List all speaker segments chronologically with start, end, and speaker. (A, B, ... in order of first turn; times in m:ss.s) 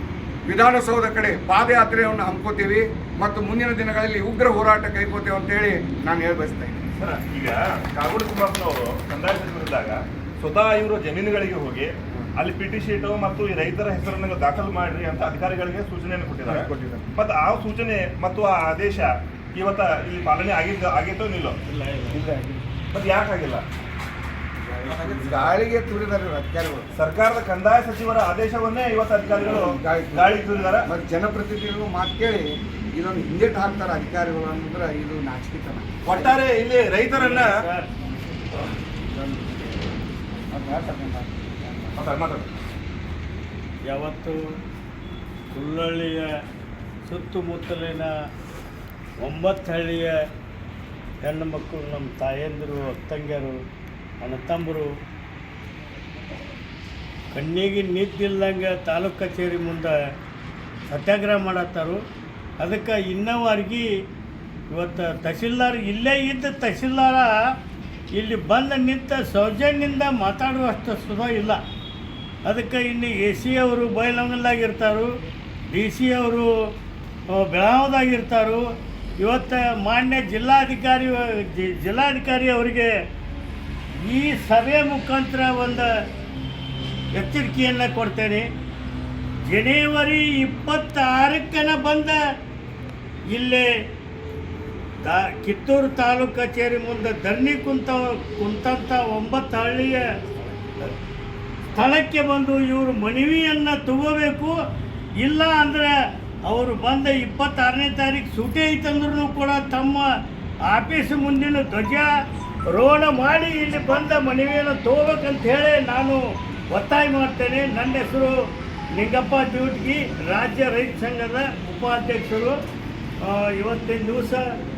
0:00.5-0:06.8 A
0:07.0-0:21.6 B
0:16.5-0:17.0 A
0:21.6-0:22.2 C
0:22.1-0:22.6 A
0:22.9-0:23.6 B
0:24.8-0:26.9 A
0:26.9-0:30.9 B
0:29.4-0:36.4 A
0:36.0-0:37.6 B
0:37.1-0:37.9 C
0:40.5-0:42.0 A
0:41.9-0:42.5 B
0:43.9-0:44.4 C
0:45.5-0:46.3 C
0:47.1-0:48.1 C
0:49.2-0:50.2 C
0:51.2-0:53.5 C
0:54.2-0:54.9 C
0:57.3-0:59.9 C
1:00.9-1:02.0 C
1:02.6-1:03.8 C
1:04.7-1:07.4 C
1:08.1-1:11.6 C
1:12.4-1:15.1 C
1:15.7-1:16.5 C
1:17.3-1:18.6 C
1:19.2-1:22.9 C
1:24.0-1:25.9 C
1:27.1-1:28.4 C
1:29.5-1:32.2 C
1:33.3-1:33.7 C
1:35.0-1:40.0 C
1:41.7-1:44.5 C
1:45.2-1:45.9 C
1:46.4-1:50.0 C
1:50.7-1:52.1 C
1:52.7-1:56.2 C
1:56.7-1:58.3 C
1:58.9-2:02.5 C
2:03.2-2:04.4 C